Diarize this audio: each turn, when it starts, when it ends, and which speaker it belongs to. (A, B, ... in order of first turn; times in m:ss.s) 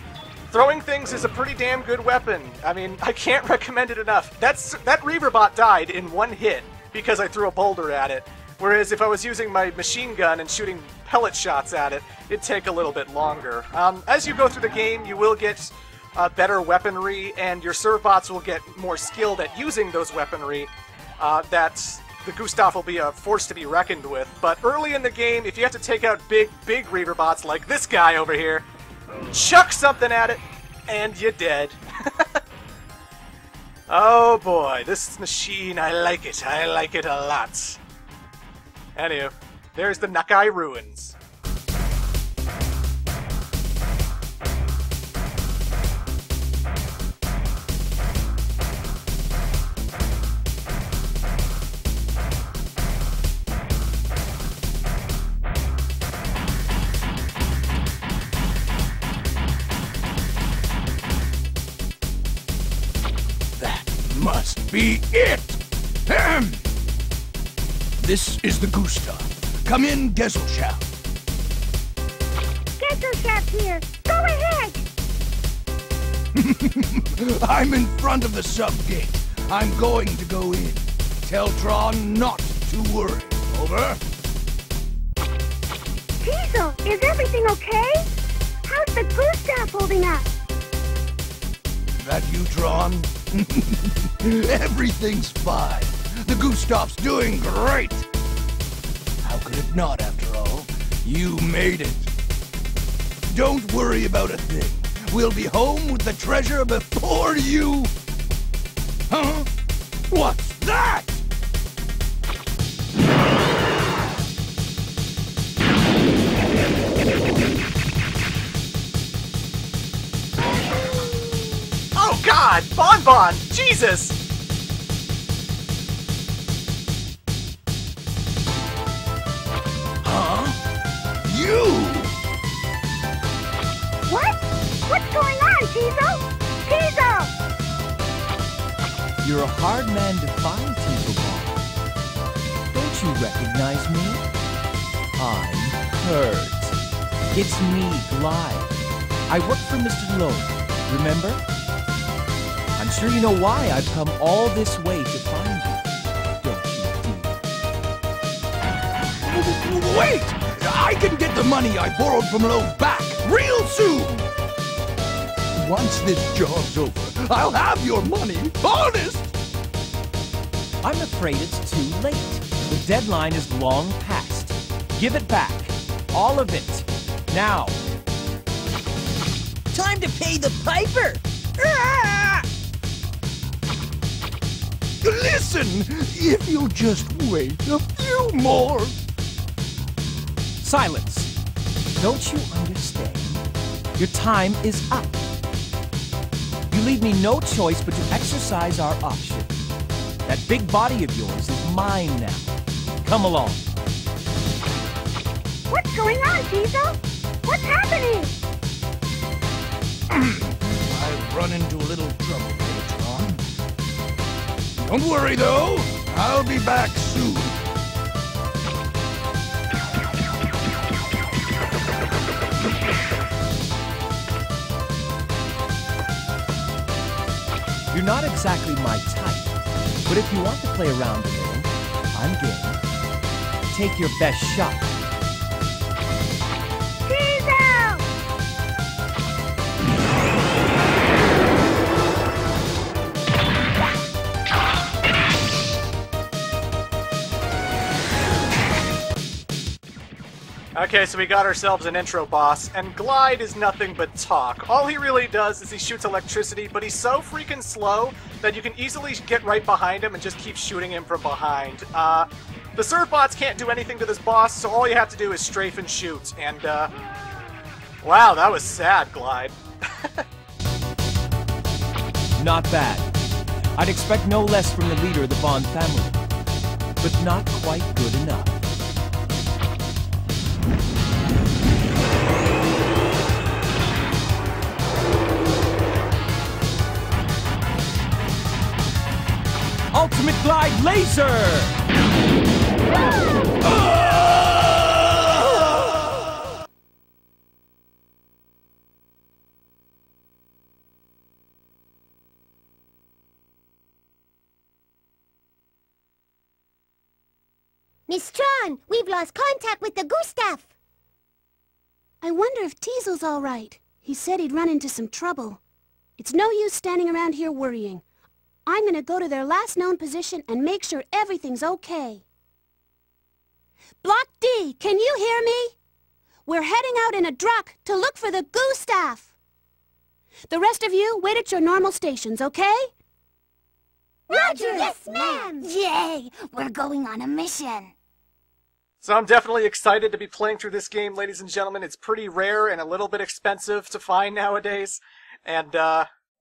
0:00.5-0:28.6 A
0:29.3-0:32.3 A
0:33.9-0:37.8 A
0:39.0-0:41.2 A
1:03.6-1:06.6 B
1:08.0-1:10.8 B
1:12.8-1:14.8 C
1:16.3-1:24.0 B
1:26.2-1:28.0 C
1:28.7-1:30.3 C
1:32.0-1:38.1 B
1:39.2-1:42.1 B
1:43.3-1:47.9 B
1:49.1-1:49.5 B
1:50.1-1:51.2 B
2:01.9-2:04.2 A
2:10.0-2:10.6 B
2:11.2-2:12.2 B
2:14.1-2:17.3 C
2:19.2-2:21.6 D
2:22.7-2:24.2 D
2:25.2-2:26.8 D
2:27.3-2:31.4 D
2:32.8-2:35.9 D
2:36.4-2:37.4 D
2:39.2-2:44.3 B
2:45.6-2:49.3 B
2:50.8-2:57.8 D
2:59.8-3:02.4 B
3:05.0-3:08.9 B
3:10.6-3:11.3 D
3:12.0-3:13.4 D
3:14.0-3:15.1 D
3:16.7-3:19.5 D
3:20.2-3:23.6 D
3:25.7-3:28.3 C
3:30.1-3:33.4 B
3:34.7-3:37.6 B
3:47.9-3:49.5 D
3:50.0-3:52.8 D
3:53.7-3:54.9 D
3:57.1-3:58.0 C
4:10.7-4:26.9 A
4:28.0-4:30.0 A
4:32.4-4:33.1 D
4:33.8-4:36.2 D
4:37.0-4:38.6 D
4:49.9-4:51.8 D
5:08.1-5:10.7 E
5:12.2-5:15.6 F
5:16.2-5:18.0 F
5:18.7-5:22.2 F
5:24.0-5:25.8 F
5:26.4-5:29.3 F
5:30.5-5:32.9 F
5:34.3-5:37.9 E
5:34.3-5:35.0 F
5:35.1-5:35.5 C
5:39.0-5:46.1 A